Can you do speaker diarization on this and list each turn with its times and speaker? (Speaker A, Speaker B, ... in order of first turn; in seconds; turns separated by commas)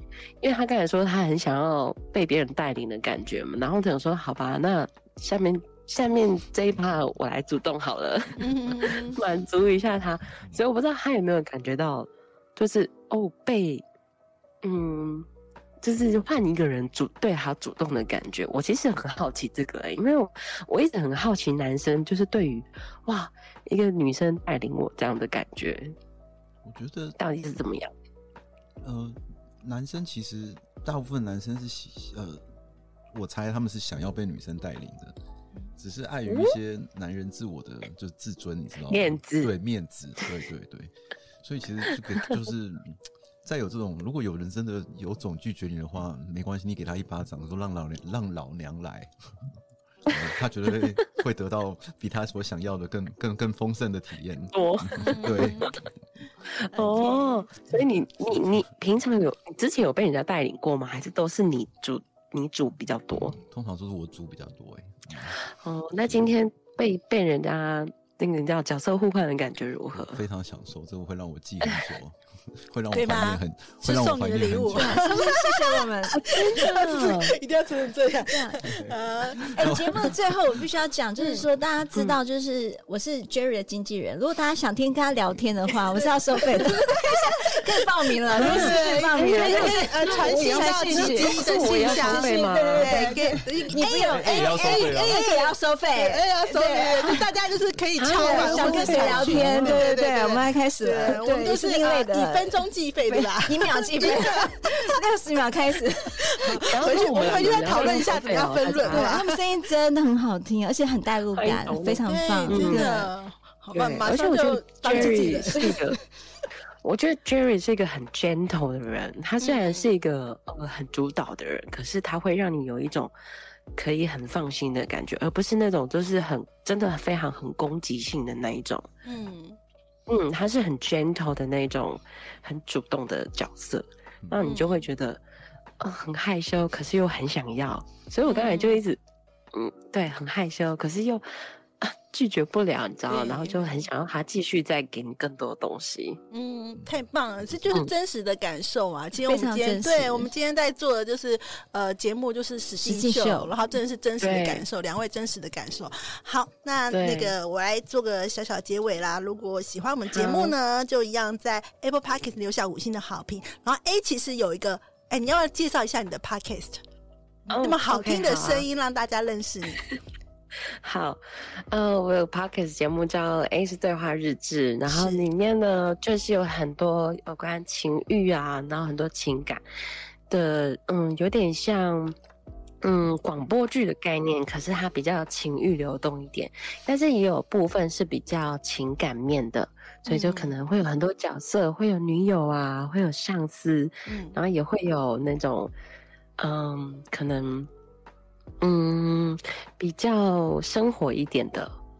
Speaker A: 0.4-13.8, Speaker B: 8.4-9.2, Speaker A: 14.6-15.3, Speaker A: 15.8-25.9, Speaker C: 26.6-27.2, Speaker A: 27.2-27.9, Speaker C: 28.8-32.4, Speaker C: 33.1-35.1, Speaker C: 35.8-49.1, Speaker A: 36.3-36.5, Speaker A: 38.9-39.5, Speaker C: 50.0-55.7, Speaker A: 54.5-55.7, Speaker B: 55.0-55.7, Speaker A: 56.5-63.4, Speaker B: 56.8-57.5, Speaker C: 63.3-65.4, Speaker A: 65.6-70.2, Speaker C: 69.9-75.0, Speaker B: 72.9-79.8, Speaker D: 74.7-76.7, Speaker A: 76.2-77.3, Speaker D: 78.3-78.6, Speaker C: 78.6-80.2, Speaker D: 79.5-97.3, Speaker B: 81.2-81.4, Speaker B: 85.9-104.9, Speaker A: 88.3-93.1, Speaker C: 94.0-95.3, Speaker A: 98.0-99.9, Speaker D: 98.1-107.0, Speaker B: 106.2-109.4, Speaker A: 106.6-109.1, Speaker D: 108.7-113.1, Speaker A: 111.3-112.9, Speaker B: 112.0-115.8, Speaker A: 113.7-116.0, Speaker D: 115.0-115.7, Speaker A: 116.8-123.1, Speaker B: 119.4-119.9, Speaker A: 123.7-128.9, Speaker B: 129.0-129.6, Speaker A: 130.1-135.2, Speaker C: 134.2-134.6, Speaker B: 134.4-134.9, Speaker A: 135.8-139.0, Speaker B: 138.2-138.8, Speaker A: 139.5-146.2, Speaker B: 143.1-143.9, Speaker B: 146.3-166.8, Speaker D: 149.2-150.3, Speaker D: 152.8-153.5, Speaker A: 154.2-154.6, Speaker A: 156.9-157.3, Speaker A: 160.1-160.5, Speaker B: 167.5-170.0, Speaker A: 167.5-168.7, Speaker A: 170.8-179.6, Speaker B: 174.8-175.2, Speaker A: 180.3-182.2, Speaker A: 182.8-195.7, Speaker B: 190.1-190.5, Speaker B: 194.1-194.4, Speaker A: 196.4-197.7, Speaker A: 198.6-201.8